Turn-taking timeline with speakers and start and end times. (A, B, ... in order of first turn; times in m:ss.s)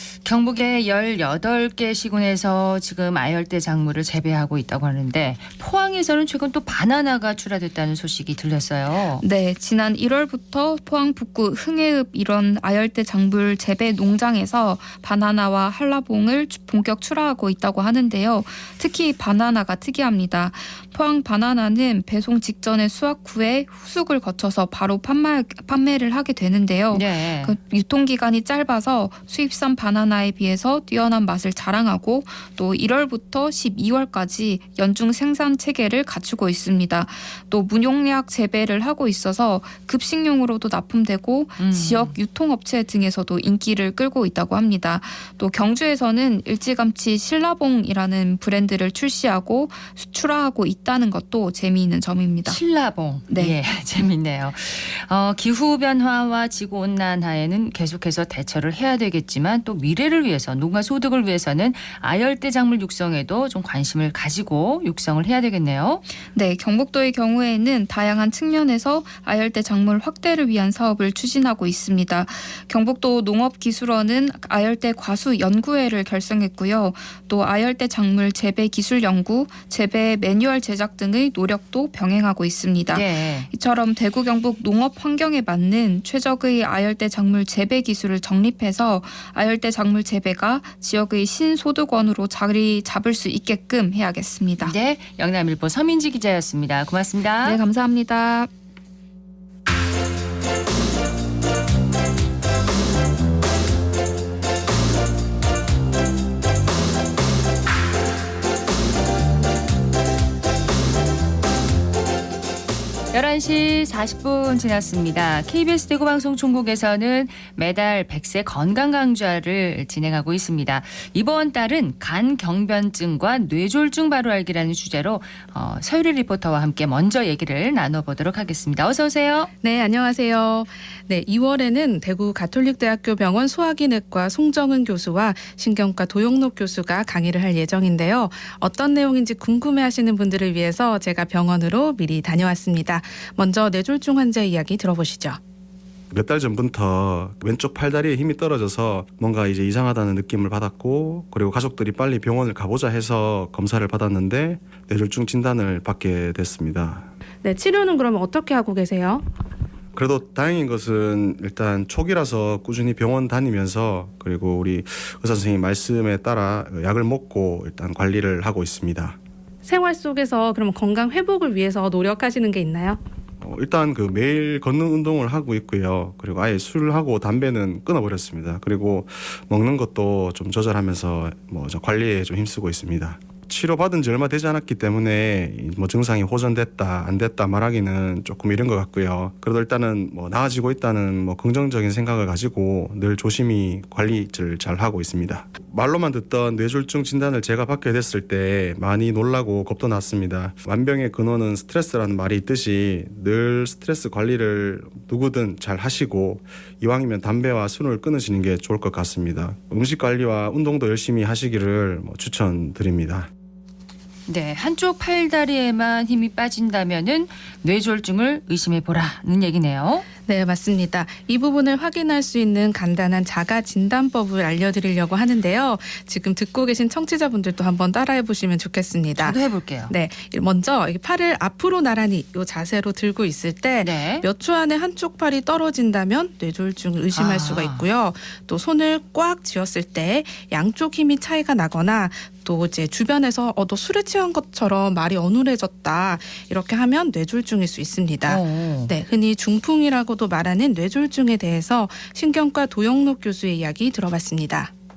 0:00.2-0:09.2 A
0:09.2-0:52.6 B
0:26.9-0:27.5 A
0:41.6-0:42.2 A
0:52.4-1:06.0 A
0:53.3-0:53.6 B
1:06.3-1:34.7 B
1:22.9-1:23.5 A
1:34.6-1:37.6 A
1:37.4-1:38.5 B
1:53.1-2:09.5 A
2:09.6-2:25.4 C
2:26.1-2:37.1 D
2:37.4-2:39.2 C
2:39.9-2:49.2 D
2:49.6-2:53.0 C
2:53.4-3:33.3 D
3:34.3-3:40.0 A
3:40.2-3:49.4 C
3:49.2-3:49.9 A
3:49.9-4:14.7 C
3:53.8-3:54.2 A
3:57.1-3:57.8 A
4:08.2-4:08.9 A